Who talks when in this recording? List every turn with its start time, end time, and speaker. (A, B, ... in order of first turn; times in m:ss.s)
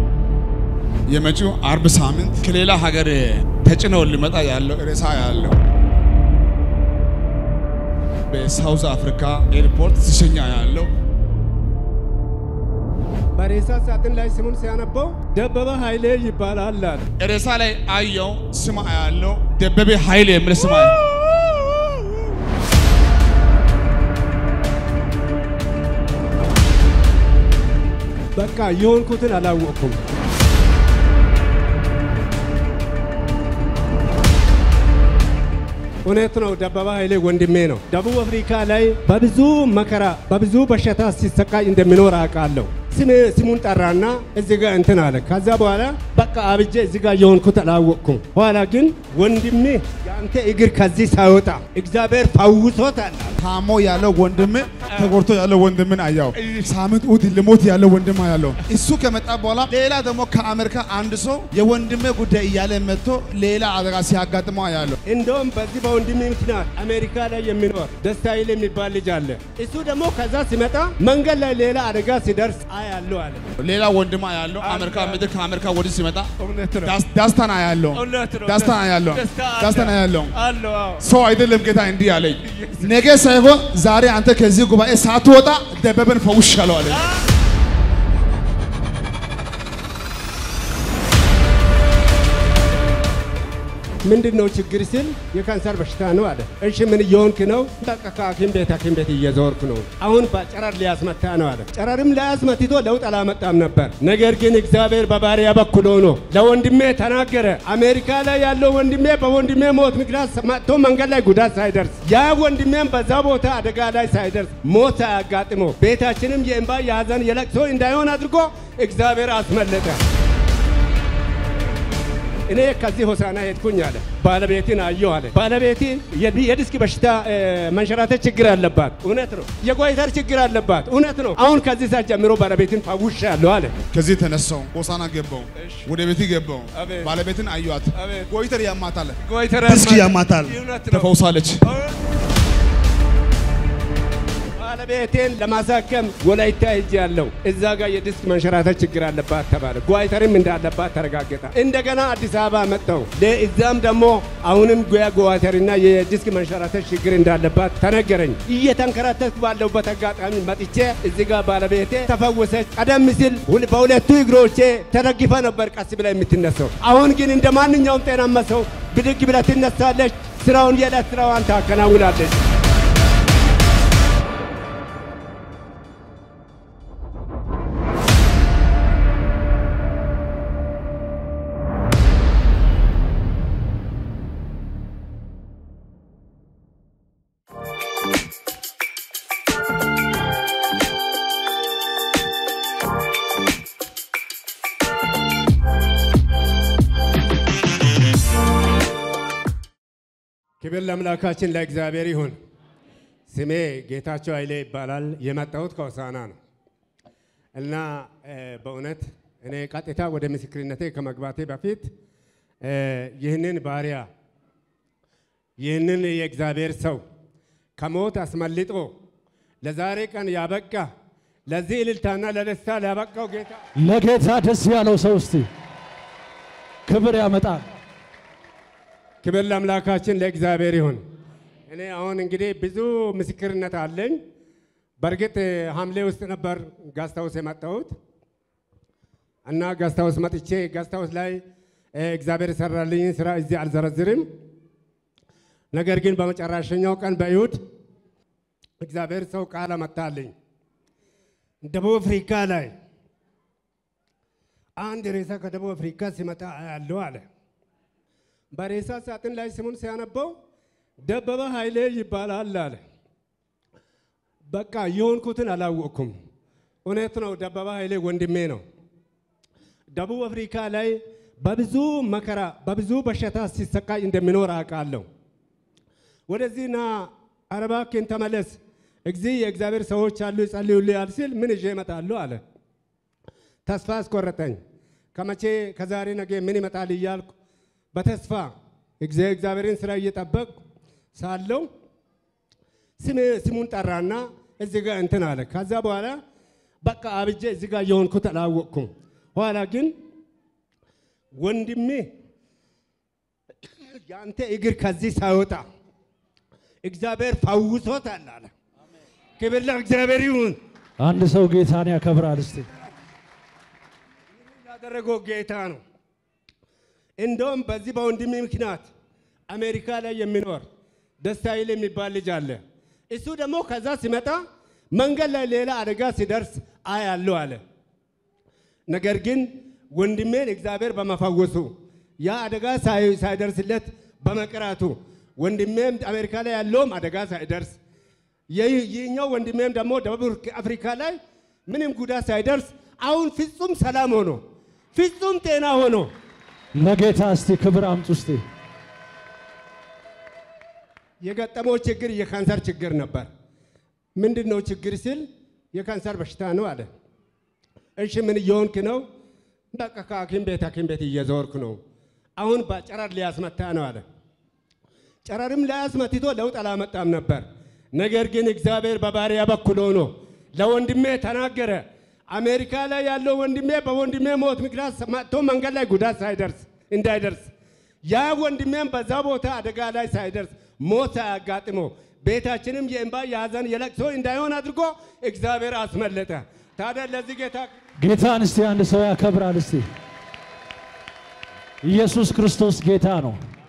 0:01.1-0:05.6 A
0:08.3-0:10.9 A
0:13.4-0:17.1 B
0:17.2-0:21.0 A
0:20.7-0:22.0 B
0:28.3-0:30.0 B
0:36.0-0:53.4 B
0:53.4-1:05.0 A
0:54.8-0:55.2 B
0:56.4-0:56.7 B
1:05.0-1:13.5 B
1:13.6-1:16.3 A
1:14.6-1:15.2 B
1:16.4-1:16.9 B
1:16.8-1:20.3 A
1:17.9-1:21.0 B
1:21.0-1:27.0 A
1:22.4-1:23.0 B
1:34.0-2:00.0 B
2:02.5-2:13.8 B
2:13.9-2:21.6 A
2:15.6-2:15.9 B
2:16.7-2:17.2 B
2:17.9-2:18.3 B
2:19.2-2:22.0 B
2:24.6-2:52.4 B
3:20.6-3:22.3 B
3:23.3-3:26.3 B
3:27.5-3:31.9 B
3:32.6-3:34.1 B
3:35.6-3:37.0 B
3:37.8-3:39.0 B
3:39.6-3:40.9 B
3:41.5-3:43.6 B
3:43.8-3:45.5 C
3:46.8-3:47.7 C
3:49.2-3:51.0 B
3:51.7-3:54.2 B
3:55.0-3:57.9 B
3:59.5-4:01.4 B
4:01.9-4:04.3 B
4:05.7-4:07.6 B
4:08.8-4:10.3 B
4:11.6-4:12.7 B
4:14.8-4:17.2 B
4:18.5-4:20.3 B
4:21.0-4:22.8 B
4:24.5-4:26.1 B
4:26.8-4:28.6 B
4:29.9-4:35.0 B
4:36.3-4:42.4 B
4:43.6-4:44.6 B
4:45.1-4:47.3 B
4:47.9-4:50.5 B
4:51.1-4:51.7 B
4:53.0-4:56.2 B
4:56.8-4:59.9 B
5:01.3-5:02.1 B
5:03.6-5:05.6 B
5:06.8-5:08.5 B
5:09.4-5:10.6 B
5:11.0-5:12.7 C
5:14.4-5:15.8 B
5:17.2-5:18.9 B
5:19.5-5:20.6 B
5:21.2-5:22.6 B
5:23.1-5:24.4 B
5:24.9-5:27.6 B
5:28.9-5:37.8 B
5:38.5-5:44.4 B
5:44.9-5:46.1 B
5:46.7-5:48.4 C
5:51.2-5:53.3 B
5:54.2-5:56.9 B
5:58.0-5:59.0 B
5:59.7-6:01.8 B
6:02.4-6:04.0 B
6:05.2-6:17.5 B
6:18.0-6:27.7 B
6:28.0-6:29.9 C
6:31.8-6:33.4 C